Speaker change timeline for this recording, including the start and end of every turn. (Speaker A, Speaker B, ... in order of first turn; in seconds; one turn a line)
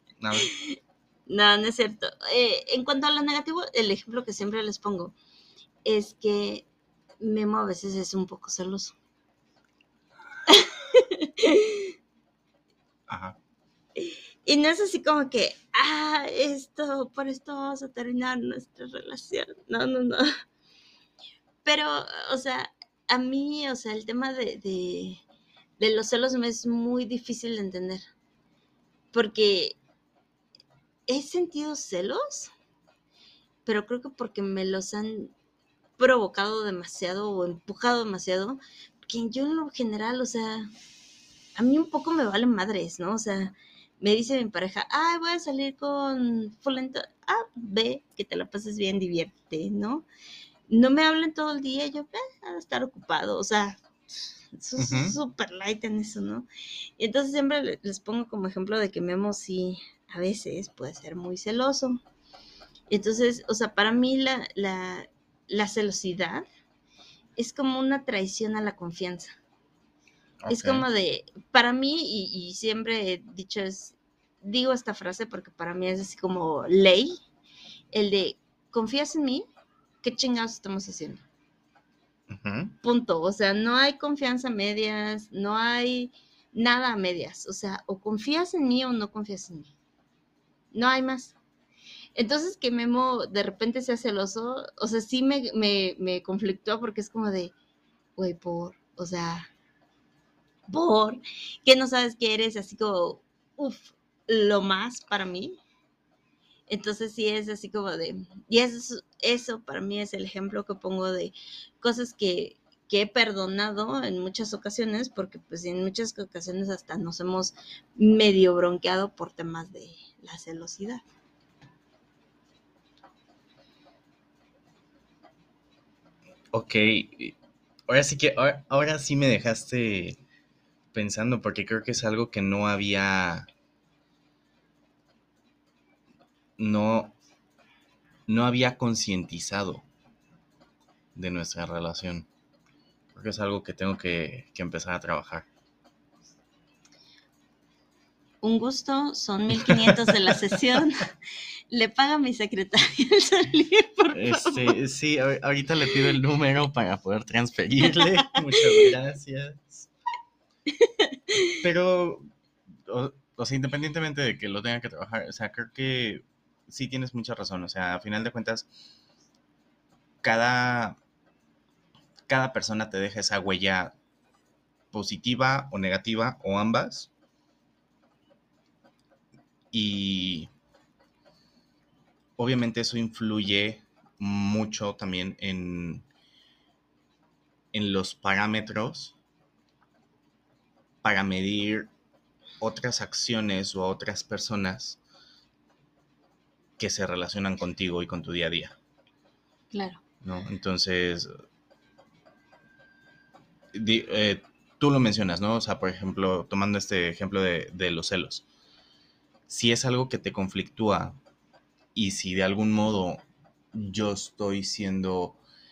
Speaker A: 0.2-0.5
Speaker B: 0.4-0.8
Speaker B: 1.3-5.1
Speaker B: 5.8-6.7
Speaker B: 7.2-8.9
Speaker B: 10.5-11.9
Speaker A: 13.1-13.4
Speaker B: 14.0-20.3
Speaker B: 21.6-25.2
Speaker B: 25.8-28.1
Speaker B: 29.1-29.8
Speaker B: 31.1-32.5
Speaker B: 33.6-35.3
Speaker B: 36.0-40.7
Speaker B: 41.5-50.0
Speaker B: 50.7-53.8
Speaker B: 54.6-56.5
Speaker A: 54.8-55.2
Speaker B: 57.0-62.0
Speaker B: 62.9-66.5
Speaker B: 67.4-69.3
Speaker A: 70.4-70.8
Speaker B: 70.5-77.2
Speaker B: 77.9-79.4
Speaker B: 80.0-81.2
Speaker A: 82.3-82.8
Speaker B: 82.8-89.7
Speaker B: 90.7-91.4
Speaker B: 92.2-97.5
Speaker B: 98.2-99.5
Speaker B: 100.7-105.6
Speaker B: 106.7-121.0
Speaker A: 126.5-127.3
Speaker A: 127.9-130.2
Speaker A: 130.9-133.5
Speaker A: 136.6-137.2
Speaker A: 138.3-139.8
Speaker A: 141.1-142.3
Speaker A: 143.1-145.5
Speaker B: 148.4-151.1
Speaker A: 149.5-150.8
Speaker B: 151.7-154.8
Speaker A: 154.1-159.9
Speaker B: 160.8-161.5
Speaker A: 161.6-162.3
Speaker A: 162.8-168.7
Speaker A: 170.2-171.0
Speaker A: 172.3-173.9
Speaker A: 174.9-177.1
Speaker A: 179.7-180.5
Speaker A: 182.4-186.0
Speaker A: 187.7-189.2
Speaker A: 191.0-191.9
Speaker A: 192.6-195.0
Speaker A: 196.8-198.8
Speaker B: 199.7-200.0
Speaker A: 200.2-201.3
Speaker A: 203.7-208.4
Speaker A: 209.5-211.2
Speaker A: 211.9-213.2
Speaker A: 213.7-215.4